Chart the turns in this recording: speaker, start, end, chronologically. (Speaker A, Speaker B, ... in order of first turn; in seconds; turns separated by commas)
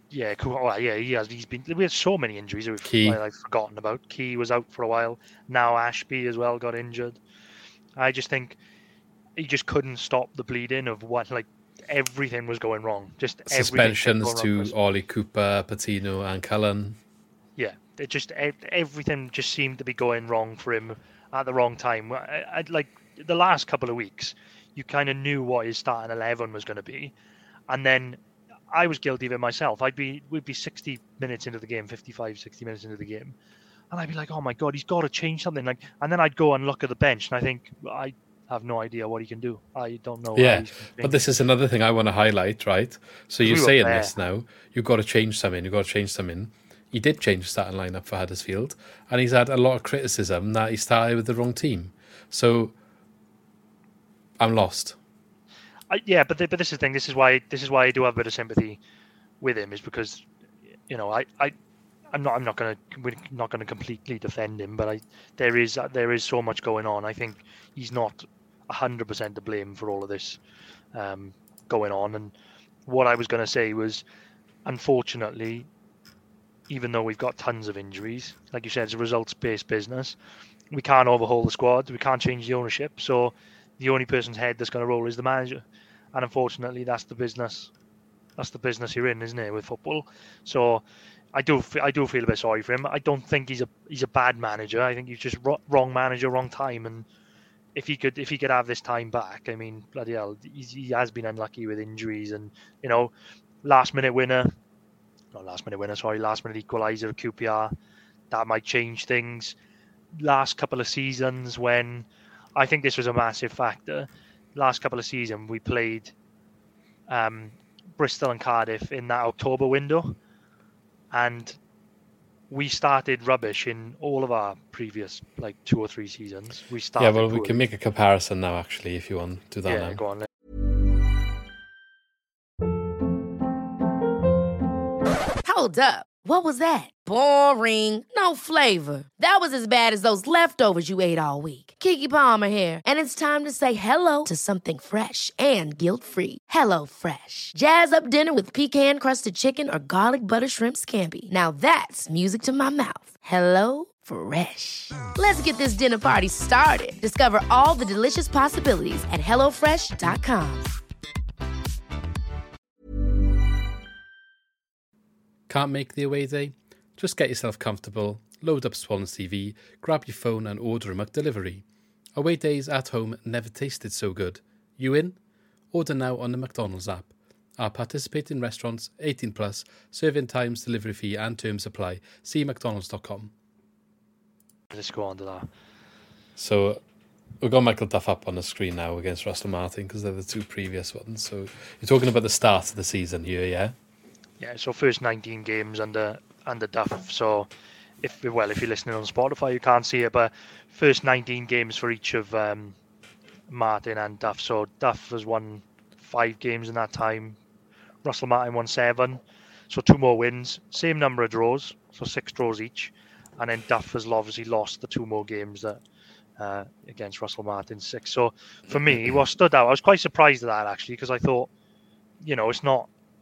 Speaker A: 0.1-7.2, Speaker B: 2.8-3.2, Speaker A: 8.0-8.6, Speaker A: 9.4-14.8, Speaker B: 13.5-17.0, Speaker A: 17.6-27.1, Speaker A: 27.7-28.2, Speaker A: 28.7-33.4, Speaker A: 33.9-41.2, Speaker B: 40.4-52.8, Speaker A: 43.4-44.1, Speaker B: 54.4-55.0, Speaker A: 55.9-58.8, Speaker A: 59.4-60.2, Speaker A: 60.9-61.5, Speaker A: 62.1-70.4, Speaker A: 70.9-72.3, Speaker A: 72.9-74.0, Speaker A: 74.7-75.7, Speaker A: 76.7-80.2, Speaker A: 80.7-87.7, Speaker A: 88.4-90.8, Speaker A: 91.3-97.1, Speaker A: 97.8-103.1, Speaker A: 103.6-104.5, Speaker A: 105.3-107.7, Speaker A: 108.3-109.6, Speaker A: 110.2-116.1, Speaker A: 117.1-120.2, Speaker A: 121.1-121.6, Speaker A: 122.5-127.6, Speaker B: 127.0-130.0, Speaker A: 129.7-130.3, Speaker C: 135.4-160.7, Speaker B: 165.5-175.2, Speaker B: 175.7-183.3, Speaker A: 184.7-185.5, Speaker B: 186.4-186.8, Speaker B: 187.4-193.8, Speaker A: 194.4-197.5, Speaker A: 198.0-202.8, Speaker A: 203.5-207.4, Speaker A: 208.0-215.8, Speaker A: 216.4-221.5, Speaker A: 222.2-222.9